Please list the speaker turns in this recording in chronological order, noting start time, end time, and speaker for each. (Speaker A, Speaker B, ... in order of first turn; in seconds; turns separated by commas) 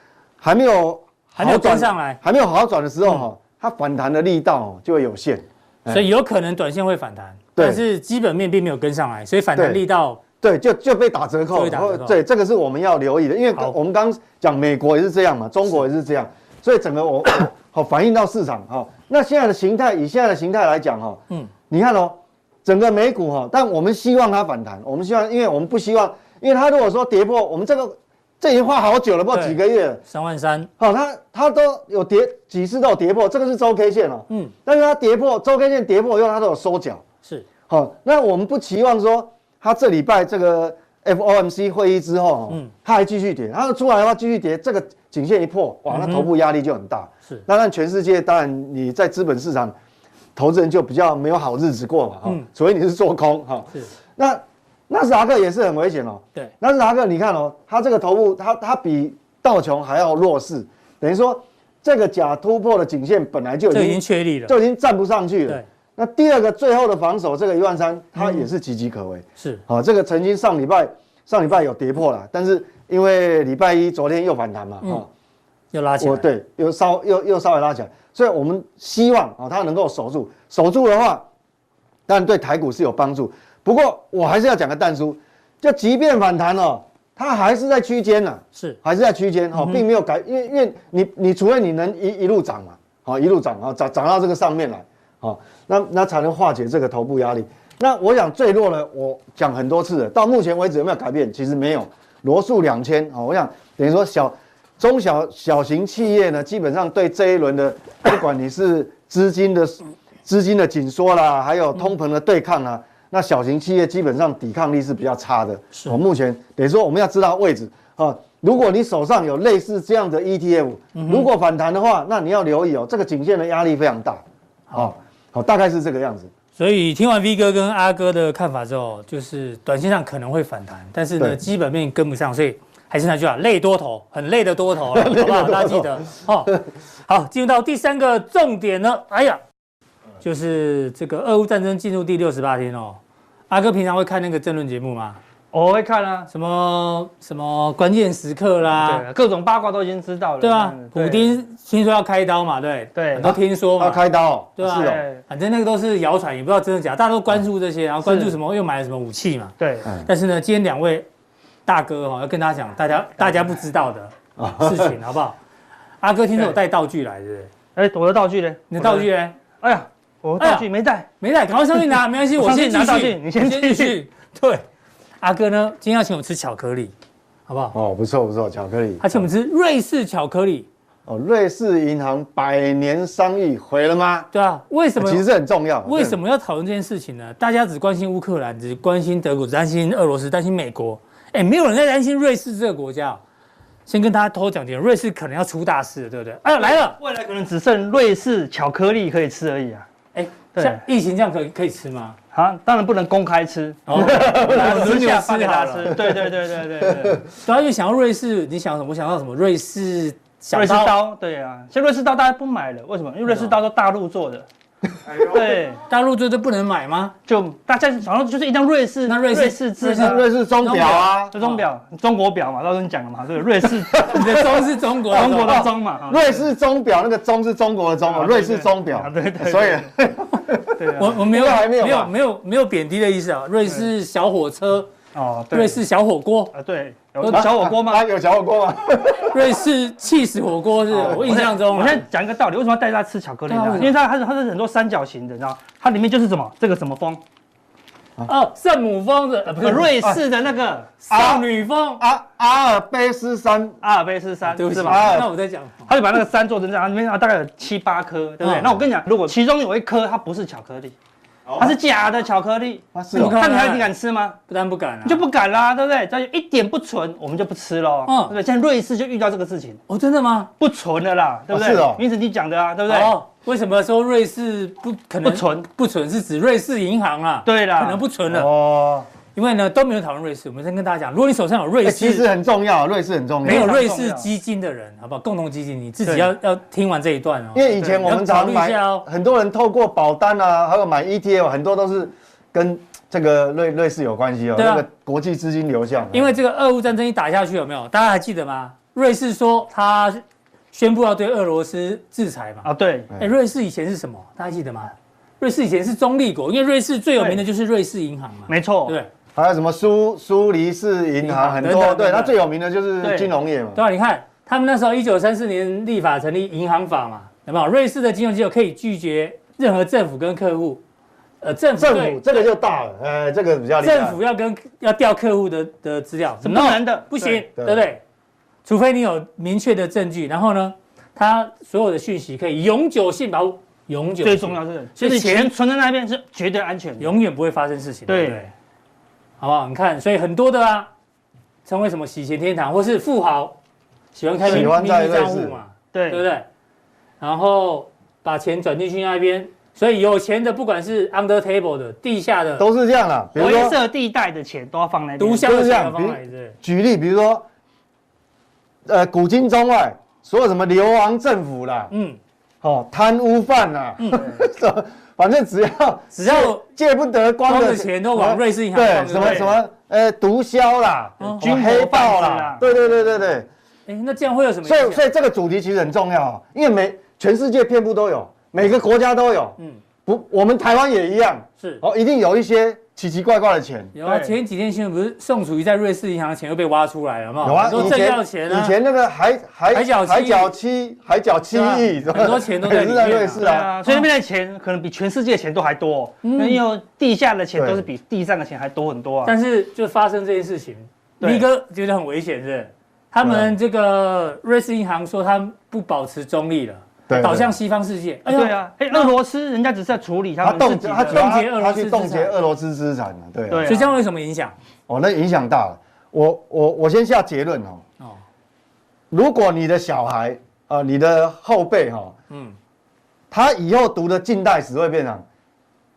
Speaker A: 0.4-6.0, Speaker B: 1.4-2.2, Speaker B: 5.9-10.2, Speaker A: 7.5-7.8, Speaker A: 9.5-9.8, Speaker A: 10.4-30.0, Speaker B: 11.5-12.2, Speaker B: 29.3-30.7, Speaker A: 30.8-37.0, Speaker A: 37.7-49.7, Speaker B: 45.9-46.3, Speaker A: 50.4-75.1, Speaker B: 63.7-64.5, Speaker B: 68.2-68.5, Speaker B: 75.7-76.2, Speaker A: 76.0-81.2, Speaker A: 82.1-124.2, Speaker B: 89.6-89.8, Speaker B: 120.9-121.3, Speaker A: 124.7-126.3, Speaker B: 126.6-139.4, Speaker A: 134.9-136.6, Speaker B: 140.2-143.0, Speaker B: 143.5-145.2, Speaker C: 145.5-146.3, Speaker B: 146.3-149.0, Speaker C: 148.8-151.3, Speaker B: 150.4-154.0, Speaker C: 152.9-153.3, Speaker A: 153.2-155.0, Speaker B: 154.6-161.1, Speaker C: 154.7-155.2, Speaker C: 158.0-158.3, Speaker C: 159.6-159.8, Speaker B: 161.7-165.4, Speaker A: 164.4-164.9, Speaker B: 166.0-167.5, Speaker C: 167.8-169.1, Speaker B: 168.7-169.3, Speaker C: 169.6-171.1, Speaker B: 170.4-170.7, Speaker B: 171.2-174.6, Speaker C: 172.4-174.0, Speaker B: 175.2-176.9, Speaker B: 177.5-177.8, Speaker A: 177.7-179.3, Speaker B: 179.0-180.7, Speaker A: 181.1-184.3, Speaker B: 184.3-185.2, Speaker A: 185.0-186.2, Speaker B: 185.8-193.2, Speaker B: 193.8-197.0, Speaker C: 196.6-199.9, Speaker B: 200.1-202.2, Speaker C: 200.5-200.8, Speaker C: 202.3-207.2, Speaker B: 203.9-205.9, Speaker A: 204.0-204.6, Speaker B: 207.4-211.0, Speaker C: 210.5-214.4, Speaker A: 215.0-215.4, Speaker C: 215.2-215.8, Speaker B: 215.8-217.1, Speaker C: 217.3-224.5, Speaker B: 219.1-221.6, Speaker A: 220.0-221.3, Speaker A: 223.9-224.6, Speaker B: 224.0-225.7, Speaker C: 225.1-226.4, Speaker A: 225.1-232.1, Speaker C: 228.1-229.9, Speaker C: 230.8-231.2, Speaker B: 231.0-234.9, Speaker C: 235.1-235.8, Speaker B: 235.5-236.5, Speaker C: 236.5-238.0, Speaker B: 237.2-237.4, Speaker A: 237.3-239.5, Speaker B: 239.3-242.0, Speaker C: 240.9-247.2, Speaker B: 243.5-243.9, Speaker B: 248.2-249.9, Speaker C: 249.6-251.0, Speaker B: 251.0-252.0, Speaker A: 251.1-253.8, Speaker C: 253.8-255.3, Speaker B: 254.6-255.9, Speaker A: 254.8-255.3, Speaker C: 255.9-260.9, Speaker B: 258.4-258.7, Speaker A: 261.5-261.7, Speaker C: 261.6-264.4, Speaker A: 262.9-263.4, Speaker B: 263.1-263.9, Speaker B: 264.5-265.2, Speaker C: 265.0-269.8, Speaker B: 268.1-268.3, Speaker B: 269.9-270.5, Speaker C: 270.6-273.1, Speaker A: 271.5-272.0, Speaker B: 272.9-278.5, Speaker C: 275.2-275.7, Speaker C: 277.4-278.0, Speaker A: 278.3-279.1, Speaker B: 279.3-282.2, Speaker A: 281.8-283.7, Speaker C: 283.4-284.3, Speaker B: 283.4-289.1, Speaker A: 287.5-296.3, Speaker B: 294.6-294.8, Speaker B: 296.1-302.7, Speaker C: 302.6-303.1, Speaker B: 303.2-309.1, Speaker C: 308.5-308.9, Speaker A: 309.3-313.8, Speaker B: 311.2-312.4, Speaker C: 313.0-313.3, Speaker B: 313.7-320.8, Speaker B: 321.4-322.2, Speaker A: 321.8-324.2, Speaker B: 323.8-328.0, Speaker C: 326.4-327.4, Speaker A: 327.6-327.9, Speaker B: 328.6-335.5, Speaker C: 334.2-337.1, Speaker B: 337.0-338.5, Speaker C: 338.1-338.4, Speaker B: 339.4-340.9, Speaker B: 341.6-343.6, Speaker B: 344.1-346.4, Speaker A: 344.4-345.6, Speaker C: 345.9-346.2, Speaker B: 347.2-352.6, Speaker A: 352.6-353.8, Speaker C: 353.4-355.5, Speaker B: 355.2-356.6, Speaker A: 355.4-357.4, Speaker A: 358.9-361.9, Speaker B: 361.9-362.2, Speaker A: 362.6-373.5, Speaker B: 364.0-364.4, Speaker B: 366.1-366.6, Speaker B: 367.4-369.5, Speaker C: 369.1-369.5, Speaker B: 371.2-371.5, Speaker C: 371.4-372.6, Speaker B: 373.9-375.1, Speaker A: 374.6-383.9, Speaker B: 383.9-388.7, Speaker C: 384.0-384.4, Speaker A: 387.4-393.7, Speaker B: 389.7-390.5, Speaker B: 391.5-394.1, Speaker C: 393.3-399.3, Speaker B: 396.2-396.6, Speaker A: 397.5-397.8, Speaker B: 399.2-409.1, Speaker A: 403.2-403.5, Speaker A: 407.1-407.5, Speaker C: 408.3-411.3, Speaker A: 410.4-413.7, Speaker B: 411.1-412.3, Speaker C: 413.5-413.9, Speaker B: 413.6-414.5, Speaker A: 414.9-417.8, Speaker A: 419.1-422.1, Speaker B: 422.3-422.6, Speaker A: 423.3-425.2